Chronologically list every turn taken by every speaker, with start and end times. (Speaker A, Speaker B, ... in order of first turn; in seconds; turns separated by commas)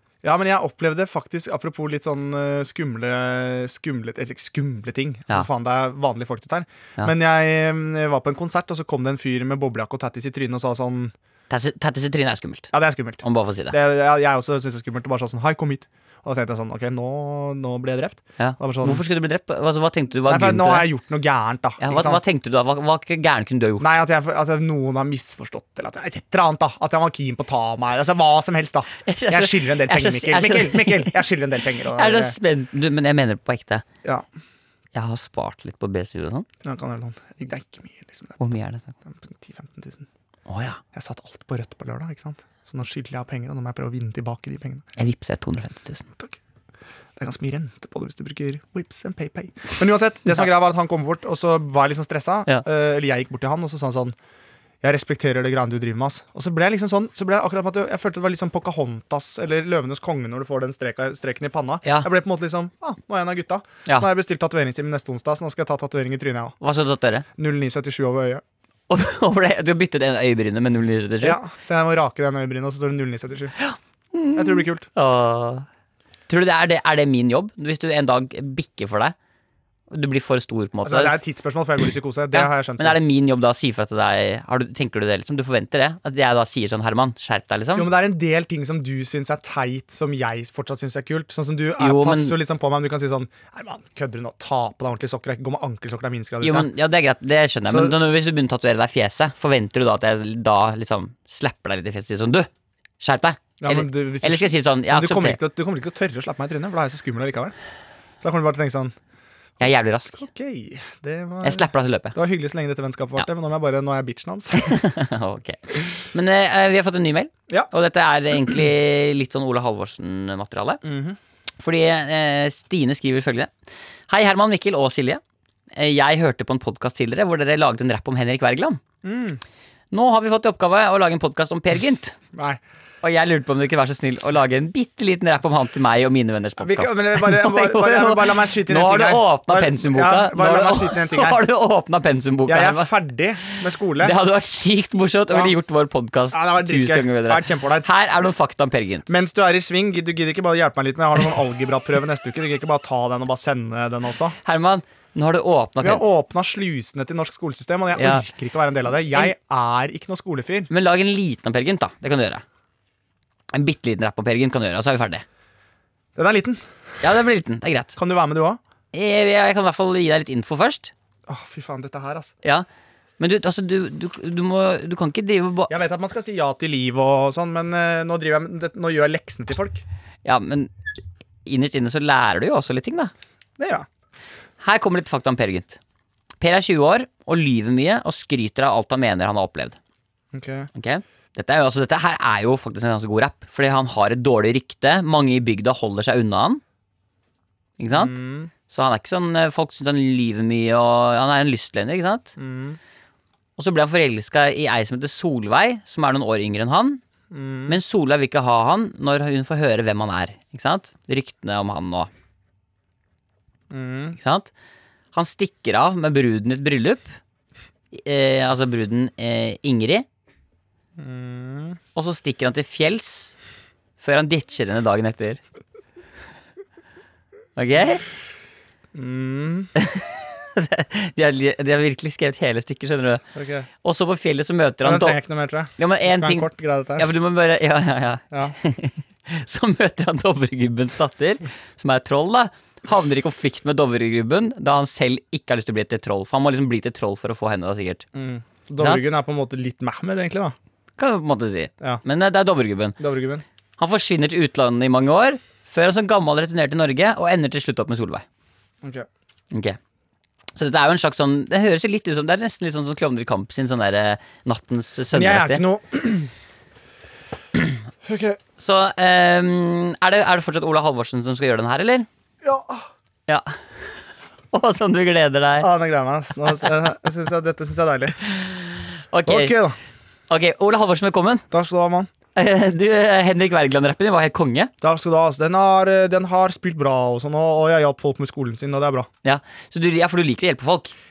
Speaker A: 0.2-11.1, Speaker B: 11.5-13.8, Speaker A: 12.7-19.0, Speaker B: 18.4-20.9, Speaker A: 20.2-22.2, Speaker B: 21.8-23.9, Speaker A: 23.8-32.4, Speaker B: 29.0-31.2, Speaker B: 31.9-33.8, Speaker B: 34.9-36.5, Speaker A: 36.6-38.4, Speaker B: 38.4-38.9, Speaker A: 39.0-40.1, Speaker B: 40.5-40.8, Speaker A: 40.9-44.9, Speaker B: 45.0-46.0, Speaker A: 47.2-54.1, Speaker A: 54.8-66.5, Speaker B: 66.6-67.2, Speaker A: 67.4-68.4, Speaker B: 68.9-71.4, Speaker A: 71.2-73.5, Speaker B: 73.6-75.7, Speaker A: 74.3-74.9, Speaker B: 76.3-79.1, Speaker B: 79.9-81.2, Speaker A: 80.8-83.0, Speaker B: 82.3-87.9, Speaker A: 87.7-96.7, Speaker B: 91.8-92.4, Speaker B: 96.4-102.5, Speaker A: 97.7-98.0, Speaker B: 103.0-105.4, Speaker A: 103.6-107.5, Speaker A: 108.2-108.9, Speaker B: 109.6-110.2, Speaker A: 109.6-114.8, Speaker B: 111.4-112.2, Speaker B: 114.5-120.8, Speaker A: 120.8-121.2, Speaker B: 121.6-123.5, Speaker B: 124.1-125.2, Speaker B: 125.7-128.8, Speaker A: 129.0-129.4, Speaker B: 129.9-132.2, Speaker A: 132.3-132.6, Speaker B: 133.0-142.9, Speaker A: 136.6-141.4, Speaker A: 142.5-144.1, Speaker B: 144.0-149.1, Speaker A: 145.3-145.5, Speaker A: 146.3-147.9, Speaker A: 149.1-154.3, Speaker B: 154.4-156.0, Speaker A: 155.8-160.7, Speaker B: 157.9-158.2, Speaker B: 160.7-162.4, Speaker B: 163.5-165.2, Speaker A: 166.1-166.6, Speaker B: 167.0-167.9, Speaker A: 167.9-168.6, Speaker B: 168.9-170.9, Speaker A: 171.3-172.3, Speaker B: 173.2-175.7, Speaker A: 175.7-179.8, Speaker B: 180.2-180.7, Speaker B: 181.4-183.1, Speaker A: 183.6-183.9, Speaker B: 184.6-185.8, Speaker B: 186.4-189.8, Speaker A: 190.3-190.7, Speaker B: 190.7-196.6, Speaker B: 197.8-202.3, Speaker A: 197.9-198.5, Speaker A: 202.4-202.8, Speaker B: 203.6-207.0, Speaker A: 207.3-207.8, Speaker B: 207.7-212.1, Speaker A: 213.7-214.2, Speaker B: 214.1-214.5, Speaker B: 215.1-217.1, Speaker B: 217.9-220.1, Speaker A: 221.0-221.8, Speaker B: 221.9-223.3, Speaker B: 224.0-225.4, Speaker B: 227.6-228.0, Speaker A: 228.9-229.7, Speaker B: 229.8-233.2, Speaker A: 233.3-233.7, Speaker B: 233.8-235.2, Speaker A: 234.8-237.1, Speaker B: 235.8-248.0, Speaker A: 248.1-250.6, Speaker B: 248.8-249.0, Speaker B: 251.0-253.0, Speaker A: 253.0-253.4, Speaker B: 253.8-258.2, Speaker B: 259.5-259.8, Speaker B: 260.6-265.6, Speaker A: 265.1-266.3, Speaker A: 268.0-268.4, Speaker B: 268.6-272.1, Speaker A: 272.4-272.9, Speaker B: 274.5-275.7, Speaker A: 275.6-278.6, Speaker B: 279.1-279.6, Speaker A: 279.2-279.8, Speaker B: 280.3-281.4, Speaker A: 281.5-282.1, Speaker B: 282.3-284.7, Speaker A: 284.8-289.1, Speaker B: 289.2-290.9